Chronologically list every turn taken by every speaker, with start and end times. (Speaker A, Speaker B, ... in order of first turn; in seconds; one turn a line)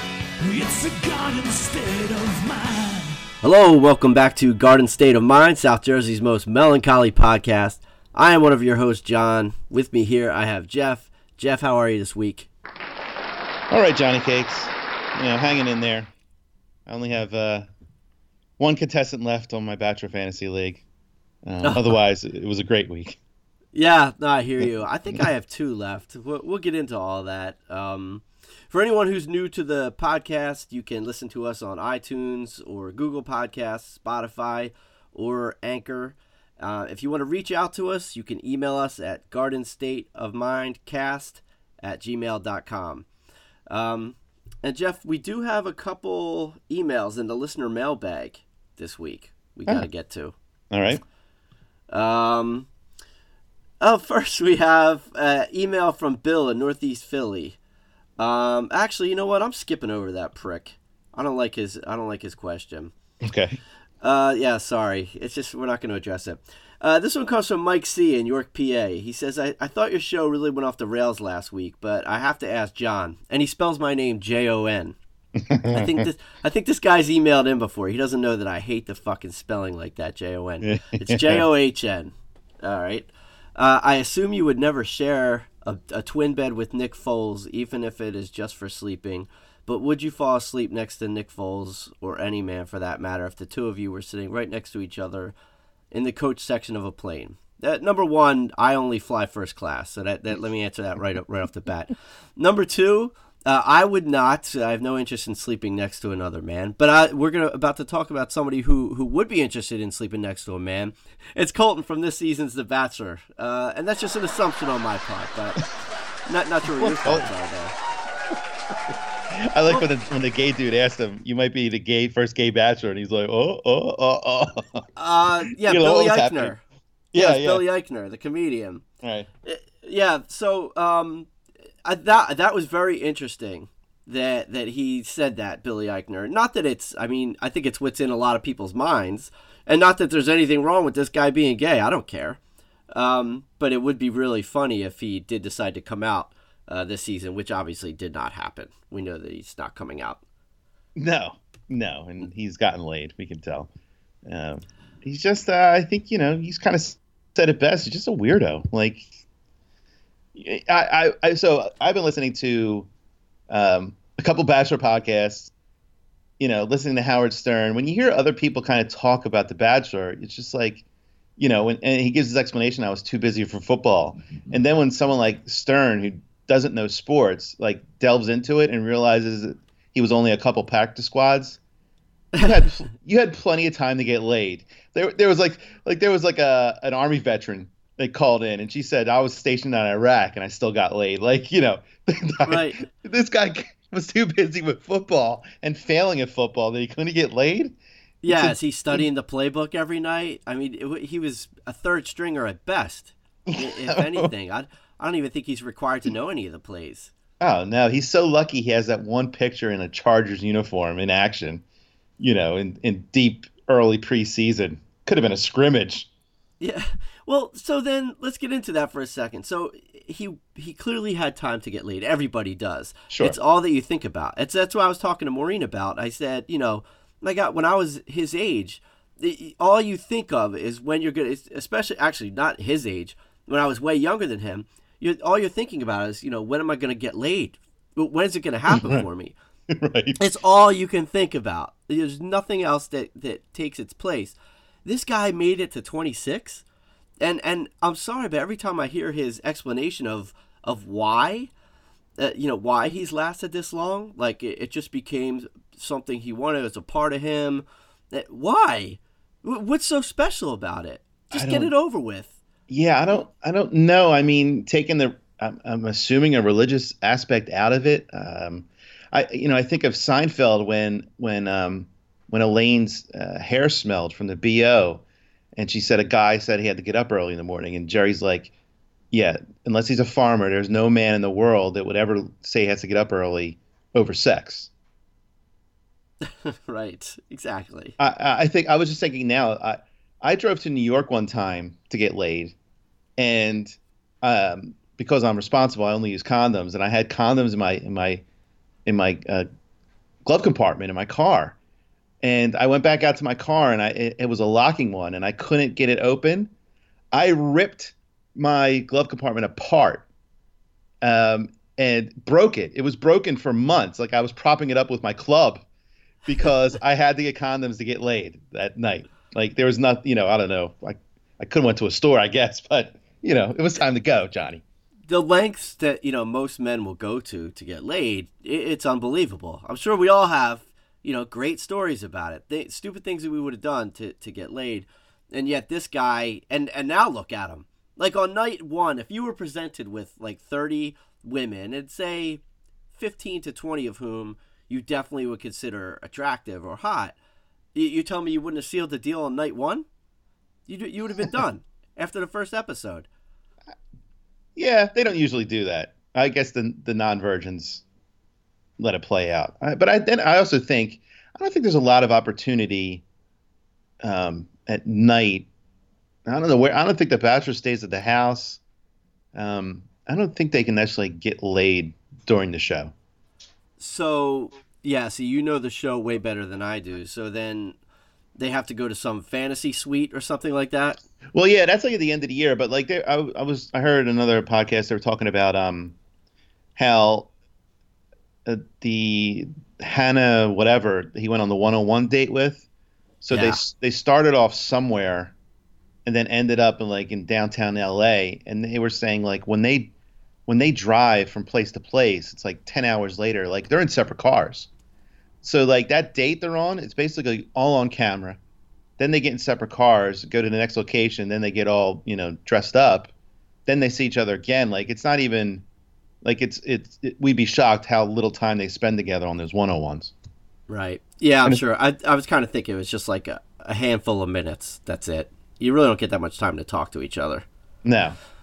Speaker A: 0.4-3.2
Speaker B: 3.4-12.5
Speaker C: 13.7-16.1
Speaker C: 16.9-17.7
Speaker C: 18.6-20.8
Speaker C: 21.4-23.2
Speaker B: 21.6-21.9
Speaker B: 23.7-43.1
Speaker B: 43.7-50.3
Speaker C: 50.7-51.0
Speaker B: 51.9-52.7
Speaker B: 53.8-57.6
Speaker B: 58.2-62.9
Speaker C: 63.2-63.6
Speaker B: 64.0-75.0
Speaker C: 75.5-76.0
Speaker B: 75.7-95.3
Speaker C: 80.6-81.4
Speaker B: 95.9-115.6
Speaker B: 116.2-117.8
Speaker C: 116.7-117.3
Speaker C: 119.3-124.8
Speaker B: 125.0-126.6
Speaker C: 125.5-126.5
Speaker C: 127.1-127.6
Speaker B: 127.1-128.8
Speaker C: 129.0-129.3
Speaker B: 129.4-131.3
Speaker B: 131.8-142.4
Speaker B: 142.9-150.2
Speaker C: 151.0-153.7
Speaker C: 154.2-159.1
Speaker C: 160.3-162.9
Speaker C: 163.5-165.5
Speaker C: 166.4-170.8
Speaker C: 171.4-181.6
Speaker B: 182.4-182.7
Speaker C: 182.4-197.7
Speaker B: 192.4-192.8
Speaker B: 198.2-207.1
Speaker C: 198.3-199.0
Speaker C: 203.5-204.3
Speaker C: 207.4-211.6
Speaker C: 212.2-216.1
Speaker B: 216.6-239.3
Speaker C: 223.1-223.3
Speaker C: 238.7-239.0
Speaker C: 239.7-240.2
Speaker B: 240.2-246.6
Speaker B: 247.2-251.5
Speaker B: 252.2-262.3
Speaker C: 261.3-261.7
Speaker C: 262.7-275.0
Speaker C: 275.6-278.5
Speaker C: 279.1-284.7
Speaker B: 286.2-287.9
Speaker C: 288.0-292.5
Speaker C: 293.2-298.2
Speaker C: 298.9-299.4
Speaker C: 300.2-301.6
Speaker C: 302.2-306.5
Speaker C: 307.1-310.1
Speaker C: 311.0-315.6
Speaker C: 316.2-324.6
Speaker B: 325.1-342.4
Speaker B: 342.9-347.1
Speaker B: 347.7-349.9
Speaker B: 350.7-353.1
Speaker C: 354.6-357.8
Speaker C: 358.8-363.0
Speaker C: 364.0-365.5
Speaker C: 366.2-368.6
Speaker C: 369.3-372.9
Speaker B: 373.8-377.8
Speaker B: 378.4-381.0
Speaker C: 381.3-385.9
Speaker C: 386.8-387.3
Speaker C: 388.4-392.6
Speaker C: 393.2-395.3
Speaker B: 393.3-393.6
Speaker C: 396.1-399.9
Speaker C: 400.5-404.7
Speaker C: 405.4-408.4
Speaker C: 409.0-413.1
Speaker C: 413.6-415.6
Speaker C: 416.2-420.1
Speaker B: 420.7-427.4
Speaker C: 427.8-428.1